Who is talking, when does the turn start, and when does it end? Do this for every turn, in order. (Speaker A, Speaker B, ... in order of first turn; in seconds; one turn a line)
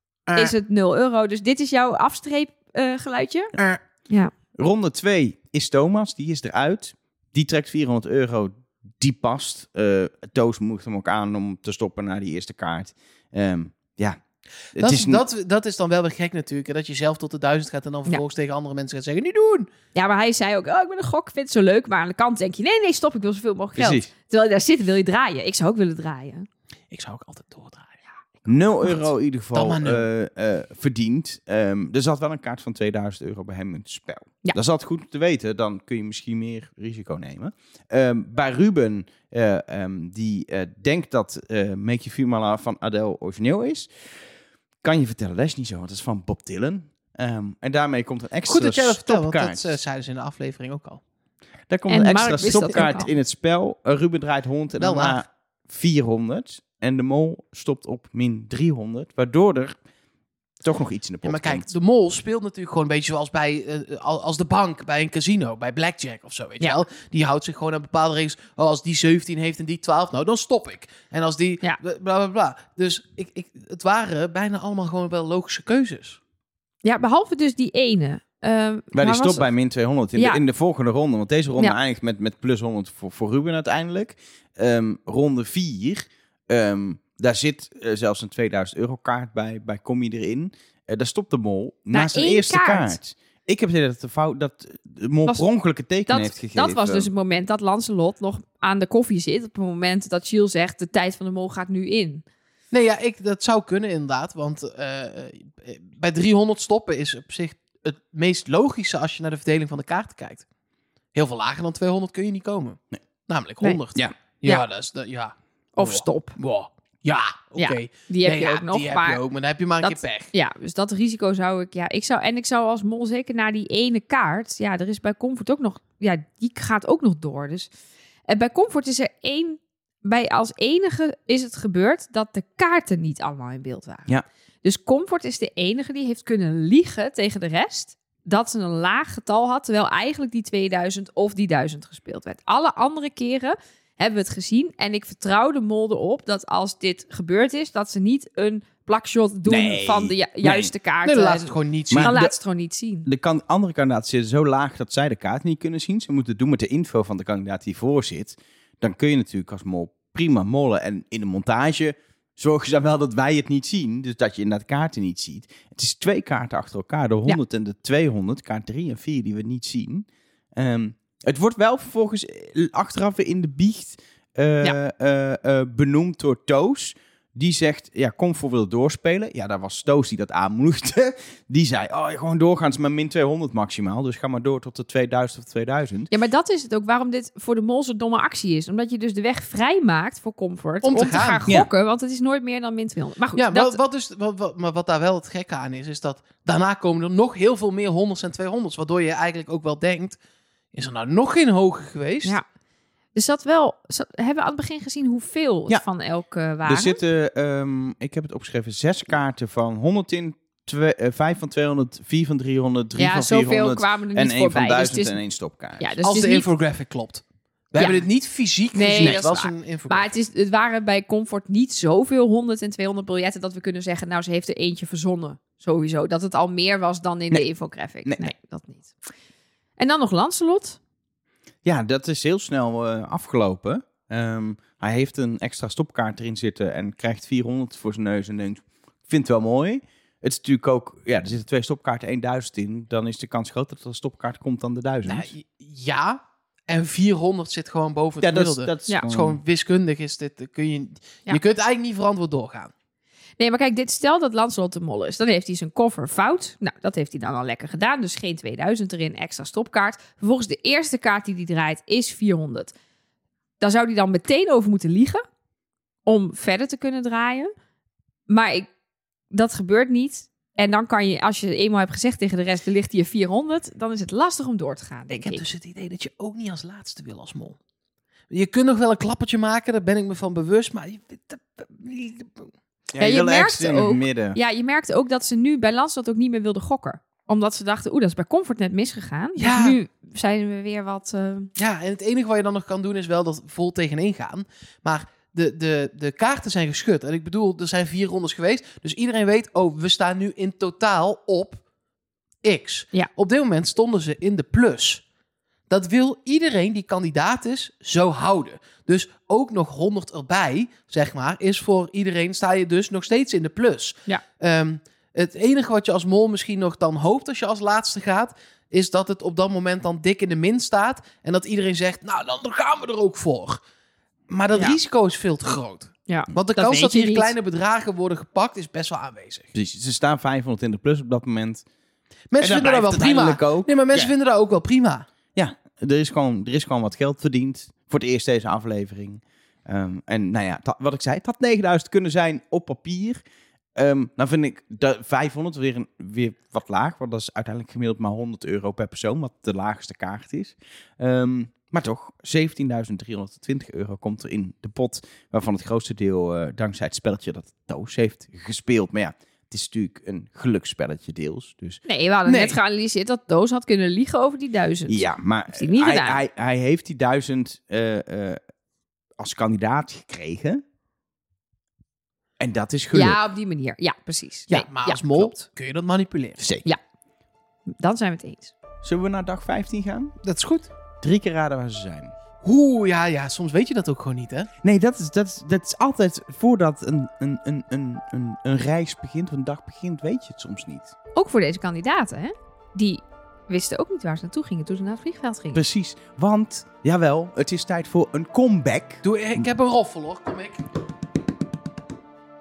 Speaker A: 0.3-0.5
Speaker B: 0.3-3.5
Speaker C: 4.6-14.2
Speaker C: 14.7-15.2
Speaker A: 14.8-19.7
Speaker B: 19.9-26.5
Speaker C: 23.8-24.1
Speaker A: 26.9-28.0
Speaker C: 28.5-43.9
Speaker A: 29.5-30.1
Speaker C: 44.8-49.7
Speaker A: 48.5-51.0
Speaker C: 51.7-59.8
Speaker B: 51.9-53.1
Speaker A: 54.8-55.2
Speaker C: 60.6-61.7
Speaker A: 61.2-76.2
Speaker B: 76.8-79.5
Speaker C: 78.9-97.1
Speaker B: 80.2-80.4
Speaker B: 91.9-93.0
Speaker B: 96.1-102.2
Speaker A: 102.7-110.5
Speaker A: 111.1-120.3
Speaker B: 115.8-116.4
Speaker B: 117.6-119.2
Speaker B: 119.8-127.7
Speaker B: 128.3-134.1
Speaker B: 134.6-153.1
Speaker C: 149.5-150.7
Speaker A: 151.0-152.2
Speaker C: 151.9-152.3
Speaker C: 153.1-186.1
Speaker B: 186.1-193.8
Speaker A: 190.8-191.5
Speaker A: 193.4-200.2
Speaker A: 200.7-202.4
Speaker B: 203.2-207.0
Speaker C: 206.6-215.9
Speaker B: 213.0-215.2
Speaker B: 215.8-216.5
Speaker A: 216.0-220.1
Speaker B: 217.8-218.1
Speaker B: 218.7-228.9
Speaker C: 228.1-228.3
Speaker B: 229.8-230.8
Speaker C: 231.7-245.3
Speaker A: 245.1-252.7
Speaker C: 248.2-249.4
Speaker B: 253.4-262.7
Speaker B: 263.6-265.3
Speaker B: 266.1-267.5
Speaker B: 268.3-268.7
Speaker B: 269.3-275.4
Speaker A: 275.1-277.6
Speaker A: 278.3-282.5
Speaker C: 282.9-284.4
Speaker B: 283.0-291.5
Speaker A: 289.4-289.8
Speaker A: 291.6-301.6
Speaker A: 302.4-305.0
Speaker A: 305.7-323.6
Speaker A: 324.3-329.5
Speaker B: 326.1-327.3
Speaker C: 329.5-331.6
Speaker A: 332.3-335.1
Speaker C: 332.4-334.1
Speaker C: 335.4-343.2
Speaker C: 343.8-361.8
Speaker B: 361.9-366.2
Speaker A: 362.2-362.6
Speaker C: 364.9-368.4
Speaker C: 369.2-370.6
Speaker C: 372.4-373.2
Speaker B: 372.9-375.4
Speaker A: 374.5-376.4
Speaker C: 376.4-376.7
Speaker B: 377.7-378.6
Speaker C: 378.8-380.1
Speaker A: 380.2-380.7
Speaker C: 381.0-382.1
Speaker A: 382.4-384.5
Speaker C: 384.6-390.9
Speaker B: 391.1-395.6
Speaker C: 395.5-399.4
Speaker A: 399.0-400.6